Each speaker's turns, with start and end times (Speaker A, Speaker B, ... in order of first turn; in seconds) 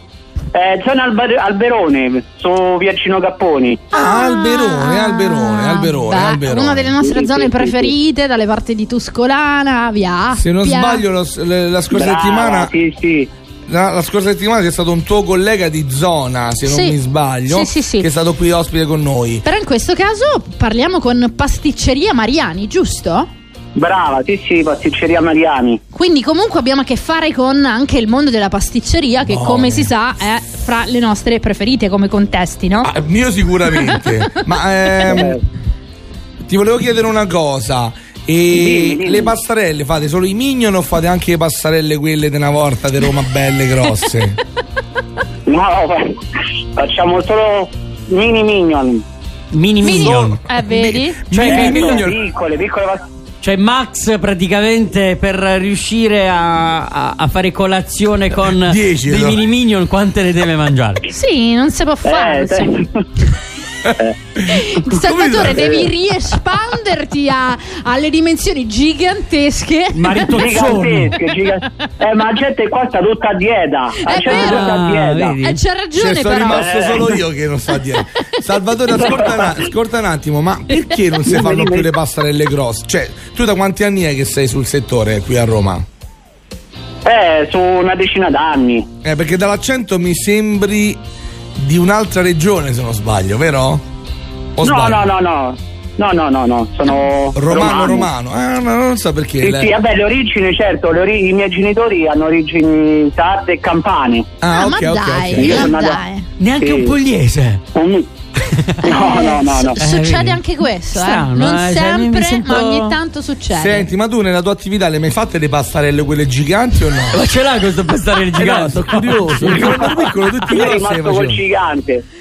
Speaker A: 0.5-3.9, 7.0-7.9, 11.9-13.3, 23.7-25.8, 35.0-35.4, 38.5-39.3, 45.5-46.2, 46.8-49.0, 51.4-53.0, 62.0-63.0, 65.5-65.9, 70.3-75.4, 76.4-77.1, 79.0-79.6, 81.2-81.9, 87.0-88.9, 94.6-98.1, 99.4-104.3, 105.3-106.0, 106.6-107.0, 107.7-108.1, 108.8-109.8, 119.5-122.0
Speaker B: 3.9-6.9, 10.4-12.7, 13.7-19.4, 29.3-29.9, 32.8-35.4, 36.5-44.4, 49.9-52.2, 58.6-59.4, 63.8-65.8, 75.9-85.8, 89.0-91.0, 91.6-93.8, 94.6-95.0, 97.3-99.7, 104.4-105.7, 113.5-117.2, 118.3-121.4
Speaker C: 3.9-11.0, 16.6-18.1, 19.4-23.3, 25.9-32.9, 33.7-34.1, 49.8-51.2, 61.0-62.7, 64.4-70.7, 74.0-74.8, 75.4-77.1, 104.5-106.3, 108.8-113.8
Speaker D: 49.5-50.4, 51.3-52.1, 53.4-61.0, 69.9-71.2, 74.2-75.6, 106.4-107.6, 108.4-108.8, 109.8-113.0, 117.1-119.8